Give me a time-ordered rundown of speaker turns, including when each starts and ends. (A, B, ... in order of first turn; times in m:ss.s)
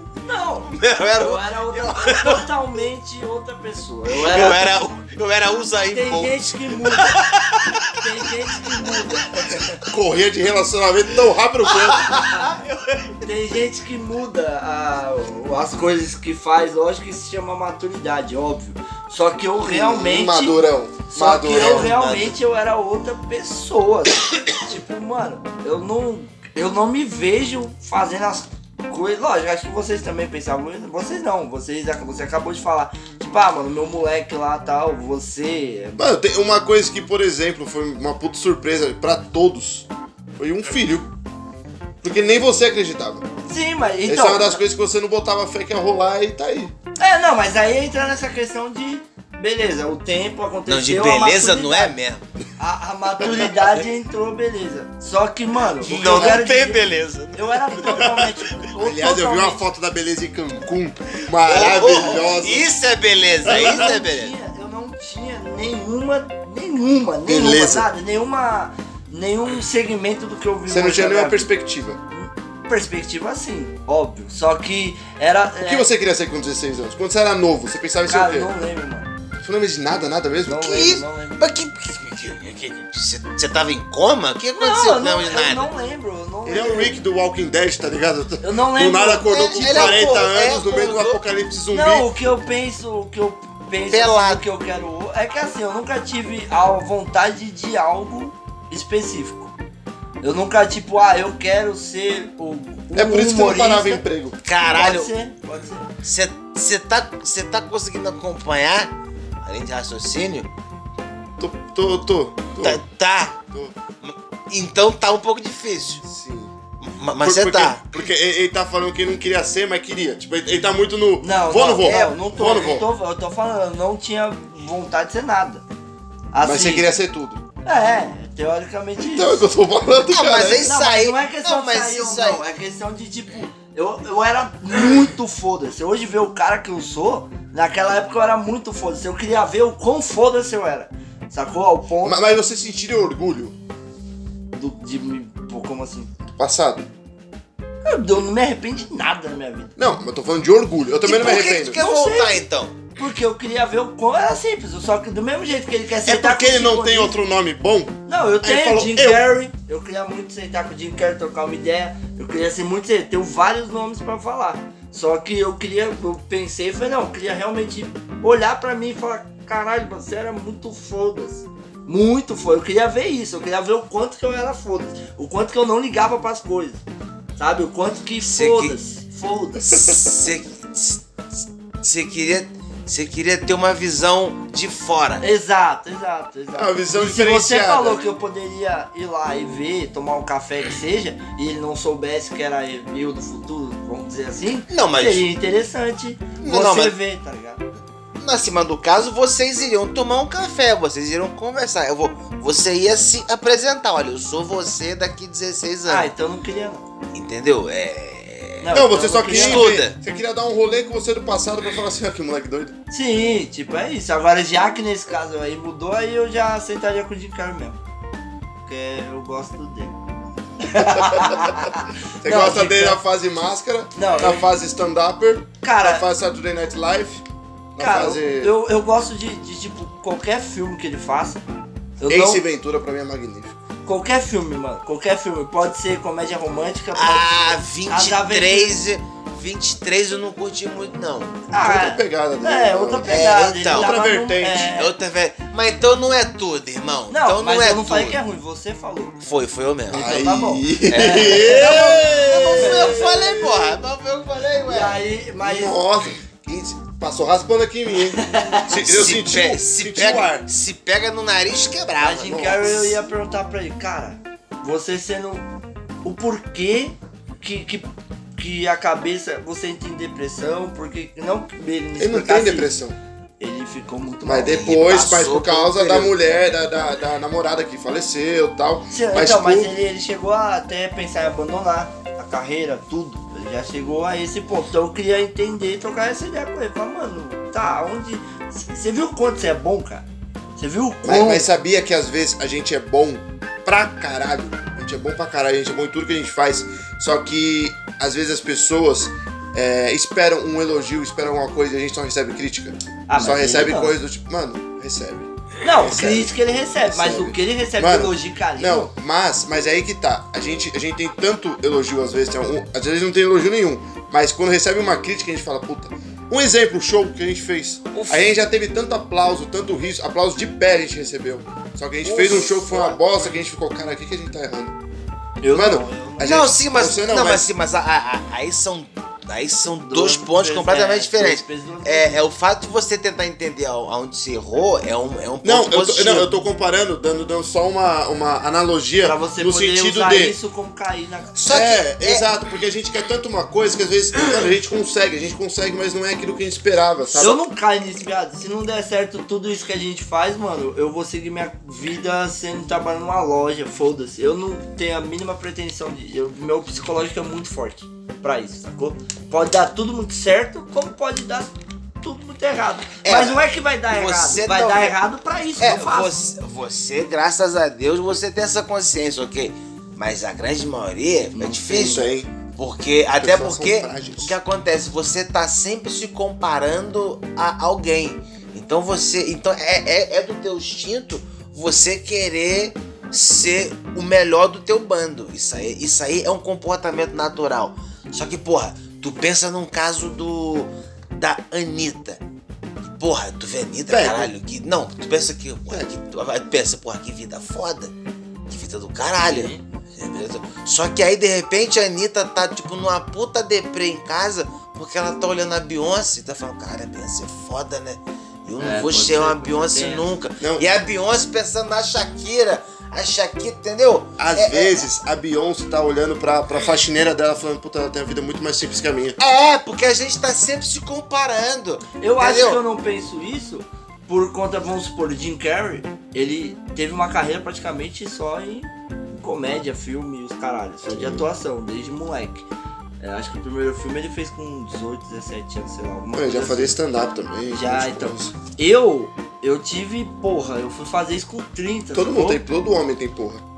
0:00.2-0:04.6 A
0:00.7-0:02.5 B
0:04.1-0:08.0 B
0:05.9-0:07.2 A
0:08.0-0:09.8 A
0:09.9-0:12.2 C
0:11.7-0:13.2 B
0:13.2-0:20.6 A
0:19.6-0:21.9 C
0:21.1-0:36.1 A
0:21.5-0:22.4 B
0:36.0-0:41.1 C
0:42.0-0:43.2 C
0:43.5-0:44.6 A
0:44.1-0:46.7 C
0:47.0-0:52.0 A
0:50.7-0:52.3 B
0:52.6-0:59.6 A
0:55.8-0:58.1 B
0:55.9-0:56.4 C
0:58.8-1:02.8 C
1:01.4-1:04.3 B
1:03.4-1:11.5 A
1:03.5-1:03.8 C
1:07.3-1:07.9 C
1:10.7-1:12.0 C
1:12.1-1:15.9 A
1:15.6-1:18.5 C
1:18.1-1:19.1 A
1:19.4-1:21.0 C
1:20.5-1:21.4 A
1:20.6-1:25.7 B
1:24.6-1:27.0 A
1:26.5-1:32.1 C
1:28.4-1:30.2 A
1:29.3-1:31.2 B
1:31.7-1:39.5 A
1:33.9-1:34.4 B
1:40.2-1:44.0 A
1:42.9-1:44.4 C
1:44.4-1:45.1 B
1:44.7-1:45.9 A
1:46.0-1:50.5 B
1:51.4-1:52.8 C
1:52.6-1:53.4 B
1:53.5-1:53.8 C
1:54.0-1:56.0 B
1:56.0-1:56.5 C
1:56.8-1:57.8 B
1:57.2-2:02.9 C
2:01.2-2:05.6 A
2:01.8-2:02.2 B
2:06.3-2:06.9 A
2:06.4-2:07.4 C
2:07.6-2:09.4 A
2:09.0-2:10.7 C
2:10.0-2:12.4 B
2:10.6-2:22.2 A
2:22.0-2:23.6 C
2:24.5-2:26.1 A
2:26.4-2:26.9 C
2:27.8-2:29.7 A
2:29.8-2:31.8 C
2:31.0-2:32.8 B
2:31.7-2:32.4 A
2:33.0-2:37.2 A
2:36.1-2:39.3 C
2:38.1-2:56.8 A
2:57.4-2:59.9 A
2:58.2-2:58.8 B
2:59.7-3:01.0 B
3:01.8-3:05.2 B
3:05.2-3:17.6 A
3:06.6-3:08.0 C
3:14.7-3:15.3 B
3:16.4-3:17.0 B
3:18.2-3:26.1 B
3:25.9-3:26.8 A
3:27.1-3:30.0 B
3:28.6-3:29.7 A
3:28.7-3:32.8 C
3:32.9-3:37.8 A
3:38.6-3:40.0 A
3:40.6-3:43.0 A
3:40.8-3:47.2 C
3:44.0-3:44.4 A
3:45.6-3:46.0 A
3:47.8-3:48.5 C
3:47.8-3:51.4 A
3:52.0-3:52.4 A
3:52.1-3:53.6 C
3:53.8-3:58.8 A
3:56.9-4:01.4 B
4:01.5-4:04.9 A
4:01.6-4:04.7 C
4:03.1-4:03.9 B
4:04.8-4:08.2 B
4:07.1-4:09.2 A
4:09.2-4:10.1 B
4:09.9-4:13.8 C
4:09.9-4:13.1 A
4:10.9-4:15.0 B
4:14.7-4:15.8 A
4:15.4-4:20.5 C
4:18.1-4:18.7 A
4:18.7-4:22.8 B
4:22.0-4:25.5 A
4:22.3-4:22.7 C
4:26.0-4:32.8 A
4:32.0-4:33.0 C
4:33.4-4:34.6 A
4:34.2-4:39.7 C
4:34.4-4:36.2 B
4:38.9-4:50.1 A
4:50.6-4:51.5 A
4:51.0-5:24.8 C
5:03.1-5:04.0 A
5:05.6-5:08.9 A
5:17.9-5:18.4 B
5:22.0-5:23.1 A
5:25.4-5:26.5 A
5:25.5-5:27.5 C
5:26.2-5:36.3 B
5:29.9-5:32.2 A
5:35.4-5:40.4 C
5:39.0-5:41.4 A
5:41.4-5:42.3 B
5:41.4-5:47.4 C
5:47.2-6:06.1 A
6:03.0-6:05.0 B
6:05.6-6:32.2 B
6:11.4-6:12.1 A
6:11.8-6:12.3 C
6:13.2-6:14.4 C
6:32.8-6:37.9 B
6:33.9-6:34.3 C
6:38.5-6:54.9 B
6:39.2-6:39.6 A
6:48.6-6:50.1 A
6:50.4-6:50.6 C
6:54.2-6:59.2 C
6:59.2-7:02.6 B
7:02.0-7:12.5 A
7:10.9-7:11.3 C
7:13.0-7:16.8 A
7:16.1-7:18.3 C
7:17.5-7:22.4 A
7:21.9-7:23.4 C